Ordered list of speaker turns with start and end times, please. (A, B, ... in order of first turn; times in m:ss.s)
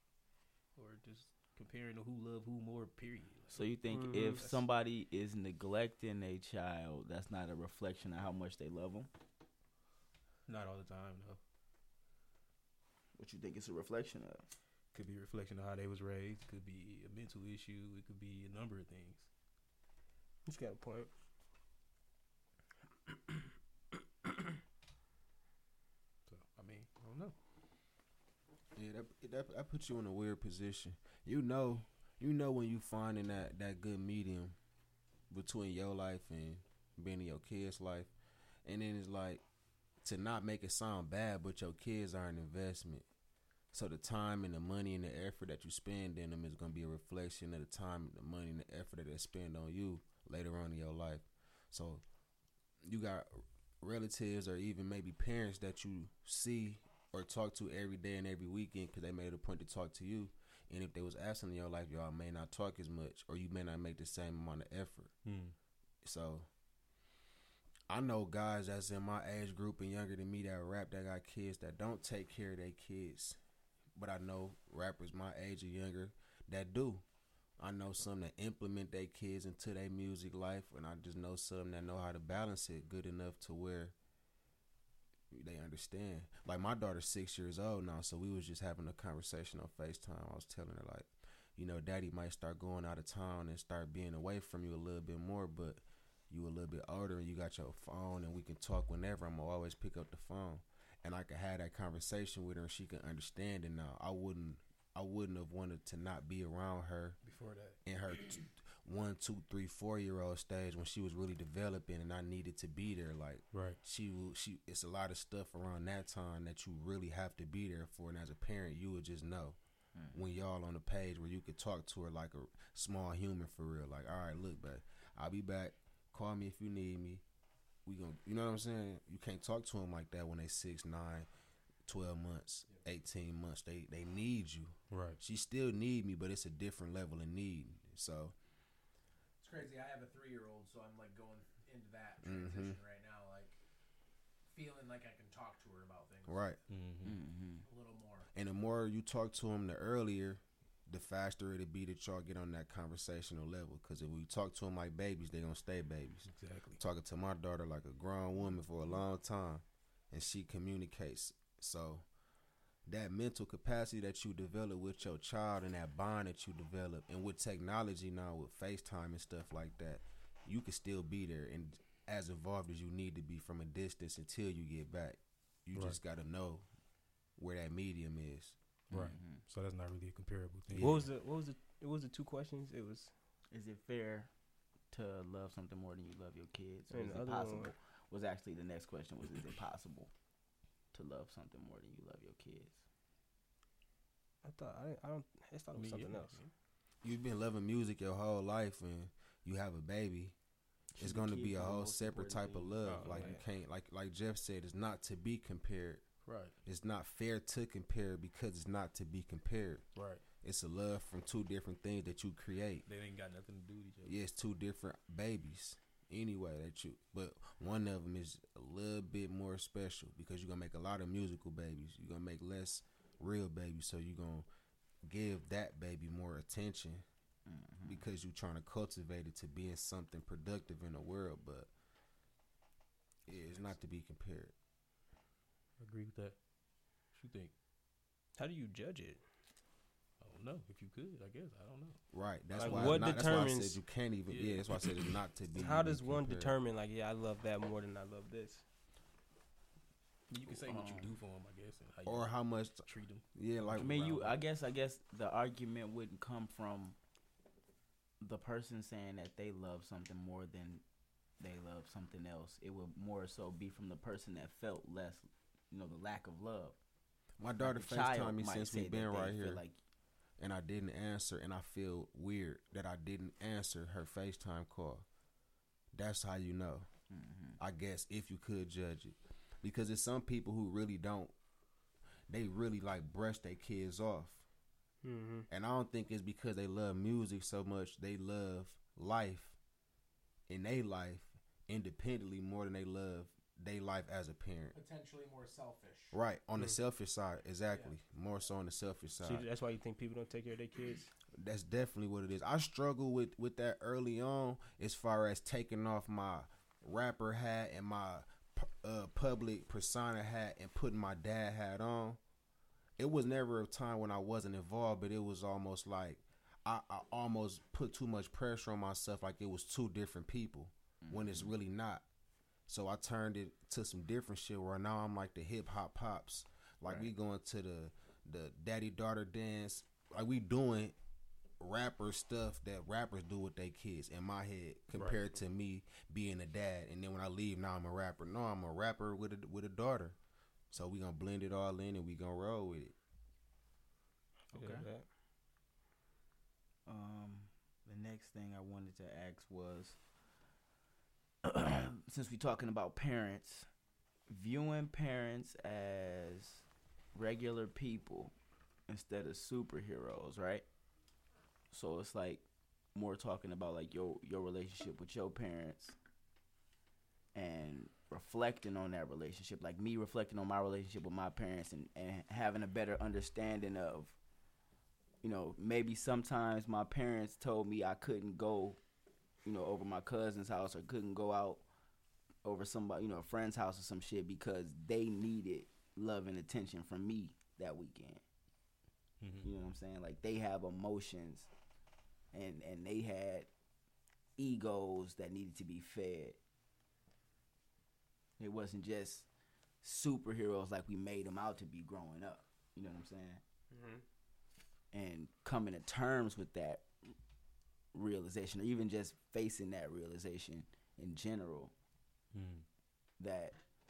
0:00.8-0:04.6 A
0:03.5-0:09.1 B
0:03.9-0:04.4 C
0:10.5-0:11.4 A
0:13.2-0:14.4 B
0:14.9-0:19.3 A
0:20.4-0:21.1 C
0:26.3-0:27.3 A
0:28.8-0:34.6 D
0:35.3-0:38.1 D
0:38.6-0:39.4 D
0:40.0-0:43.0 D
0:43.7-0:52.0 D
0:52.8-1:05.1 D
1:05.2-1:05.5 A
1:06.0-1:06.5 D
1:07.9-1:13.4 D
1:14.0-1:17.0 D
1:17.6-1:23.9 D
1:25.3-1:47.2 D
1:47.2-1:47.8 A
1:47.8-1:59.6 D
1:53.5-1:53.8 A
2:00.1-2:07.2 D
2:07.8-2:11.3 D
2:11.8-2:18.3 D
2:14.9-2:15.2 A
2:19.4-2:23.6 E
2:22.2-2:22.8 D
2:24.5-2:26.4 E
2:26.3-2:26.6 D
2:26.7-2:27.2 A
2:27.0-2:27.6 B
2:27.6-2:28.3 E
2:28.3-2:42.0 D
2:36.3-2:36.8 A
2:42.9-2:56.6 D
2:57.4-2:58.6 D
2:58.9-3:01.0 A
2:58.9-2:59.4 B
3:00.7-3:01.0 D
3:00.8-3:03.1 C
3:03.5-3:04.3 B
3:04.9-3:10.1 B
3:06.9-3:07.7 C
3:10.9-3:12.8 B
3:14.4-3:16.4 C
3:15.7-3:16.5 A
3:17.0-3:20.3 D
3:20.9-3:22.9 B
3:21.0-3:26.0 D
3:22.8-3:23.4 A
3:23.0-3:23.4 C
3:26.3-3:26.5 A
3:26.6-3:29.8 D
3:29.9-3:30.2 A
3:30.4-3:32.8 D
3:32.9-3:34.2 A
3:34.1-3:44.5 D
3:45.1-3:47.0 D
3:47.4-3:48.1 B
3:47.8-3:51.7 D
3:53.3-3:54.5 D
3:55.8-3:56.4 A
3:57.1-3:57.5 A
3:58.4-3:59.2 C
4:00.2-4:02.0 A
4:02.1-4:06.6 D
4:02.5-4:03.1 A
4:02.6-4:03.8 C
4:04.3-4:05.2 A
4:05.6-4:08.6 C
4:10.3-4:14.3 A
4:10.5-4:11.2 B
4:12.0-4:14.3 D
4:13.8-4:17.0 B
4:18.2-4:20.8 B
4:21.4-4:26.8 B
4:27.4-4:29.6 D
4:27.6-4:29.8 B
4:30.4-4:35.0 D
4:35.9-4:36.9 D
4:37.1-4:37.6 B
4:37.6-4:41.3 D
4:42.3-4:44.4 D
4:45.0-4:45.4 C
4:45.5-4:49.6 D
4:50.5-4:54.8 D
4:54.7-4:56.2 E
4:56.1-4:59.4 D
4:59.2-5:01.1 C
5:01.4-5:12.2 D
5:13.0-5:22.0 D
5:21.0-5:21.5 B
5:22.7-5:31.0 D
5:31.6-5:40.2 D
5:40.7-5:42.9 D
5:44.5-5:44.8 B
5:44.5-5:45.0 C
5:46.8-5:50.0 B
5:51.4-5:53.7 B
5:54.3-5:56.6 B
5:57.2-5:58.3 B
5:58.9-6:00.6 B
6:01.7-6:02.4 B
6:02.9-6:06.0 B
6:07.3-6:14.2 B
6:15.2-6:18.8 B
6:19.4-6:21.6 B
6:22.4-6:28.2 B
6:29.2-6:29.5 A
6:29.4-6:31.5 B
6:32.3-6:33.5 B
6:34.4-6:36.4 B
6:38.4-6:39.3 B
6:39.8-6:43.4 B
6:43.7-6:44.0 C
6:44.9-6:46.8 B
6:47.9-6:51.7 B
6:52.3-6:52.6 A
6:53.2-6:53.6 B